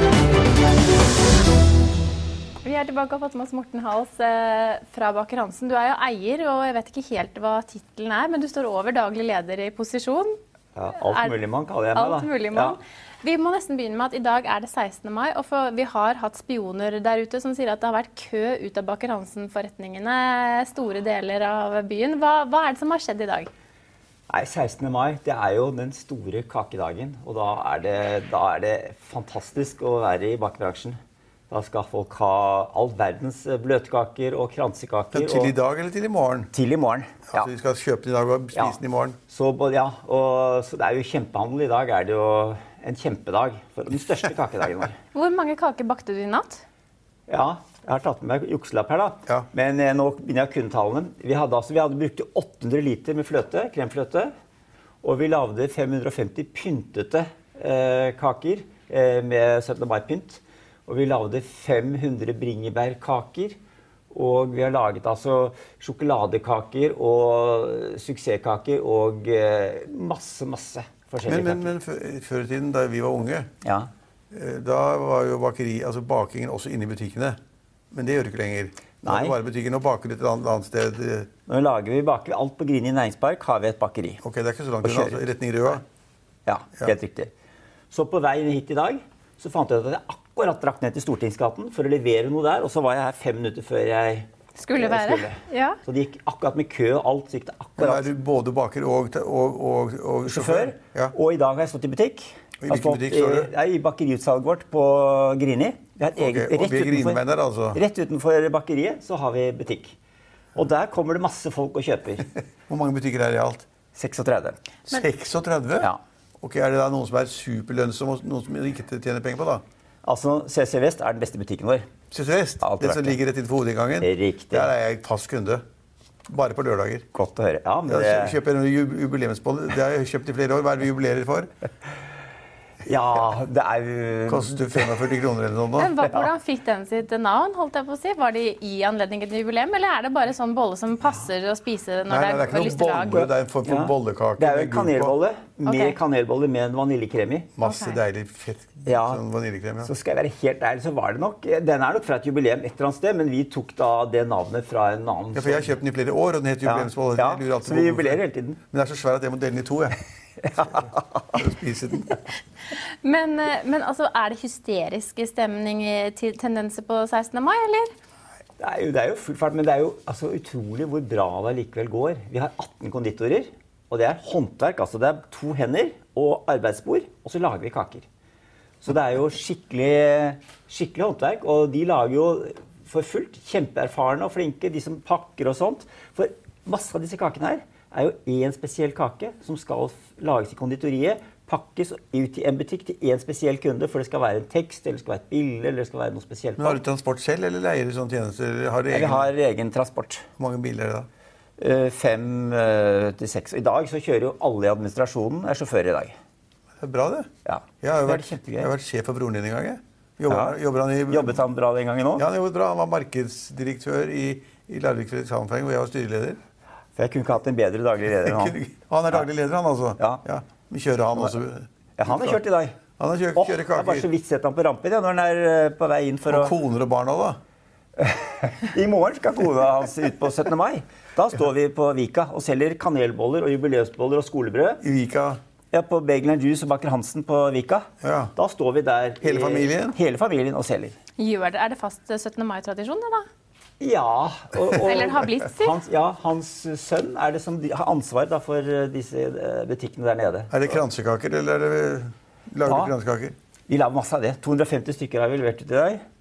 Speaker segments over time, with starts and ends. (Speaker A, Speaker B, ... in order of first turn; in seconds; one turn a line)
Speaker A: 2.6-10.3
Speaker B: 10.8-12.8
Speaker A: 11.0-23.5
Speaker B: 24.3-31.0
Speaker B: 31.5-35.5
Speaker C: 35.1-36.5
Speaker B: 36.5-37.5
Speaker C: 37.3-39.2
Speaker B: 38.5-45.0
Speaker A: 45.1-46.6
Speaker B: 47.3-54.3
Speaker B: 55.0-63.6
Speaker B: 64.1-71.7
Speaker C: 71.2-73.5
Speaker B: 73.6-73.9
Speaker C: 74.3-77.4
Speaker C: 77.9-81.3
Speaker B: 79.0-79.4
Speaker B: 81.5-84.2
Speaker C: 84.2-85.8
Speaker B: 84.8-85.8
Speaker B: 86.5-87.3
Speaker B: 87.9-98.1
Speaker A: 94.5-95.8
Speaker C: 97.8-101.1
Speaker B: 100.2-110.0
Speaker C: 102.6-103.5
Speaker C: 106.2-107.8
Speaker B: 110.5-112.3
Speaker C: 112.7-113.7
Speaker B: 113.9-114.6
Speaker C: 114.9-119.6
Speaker B: 120.0-121.8
Speaker C: 122.1-125.6
Speaker B: 122.6-123.2
Speaker B: 124.0-124.7
Speaker C: 126.3-127.1
Speaker B: 127.1-128.4
Speaker C: 127.9-131.5
Speaker B: 132.8-135.0
Speaker C: 134.3-135.9
Speaker A: 135.8-143.2
Speaker C: 142.1-145.2
Speaker B: 143.1-147.5
Speaker A: 145.7-146.0
Speaker C: 147.6-149.9
Speaker A: 147.6-148.0
Speaker B: 148.8-149.2
Speaker B: 149.8-155.8
Speaker C: 155.3-162.2
Speaker B: 156.6-158.6
Speaker B: 160.4-161.3
Speaker A: 162.7-167.9
Speaker B: 168.6-178.1
Speaker B: 178.8-196.8
Speaker C: 196.6-199.3
Speaker B: 198.9-200.2
Speaker C: 200.4-201.1
Speaker B: 201.6-206.1
Speaker C: 206.8-207.3
Speaker B: 207.4-208.7
Speaker C: 207.8-211.4
Speaker B: 210.3-210.6
Speaker B: 211.1-212.2
Speaker C: 212.2-216.4
Speaker B: 216.9-218.6
Speaker C: 218.1-222.4
Speaker B: 222.0-222.8
Speaker C: 223.0-224.1
Speaker B: 223.3-226.5
Speaker C: 226.3-227.4
Speaker B: 228.0-234.8
Speaker C: 234.8-235.4
Speaker B: 235.7-240.9
Speaker C: 238.0-238.3
Speaker C: 239.2-240.0
Speaker A: 241.2-243.2
Speaker B: 243.8-250.8
Speaker A: 244.8-245.8
Speaker C: 250.5-253.3
Speaker B: 252.6-252.9
Speaker B: 253.7-256.0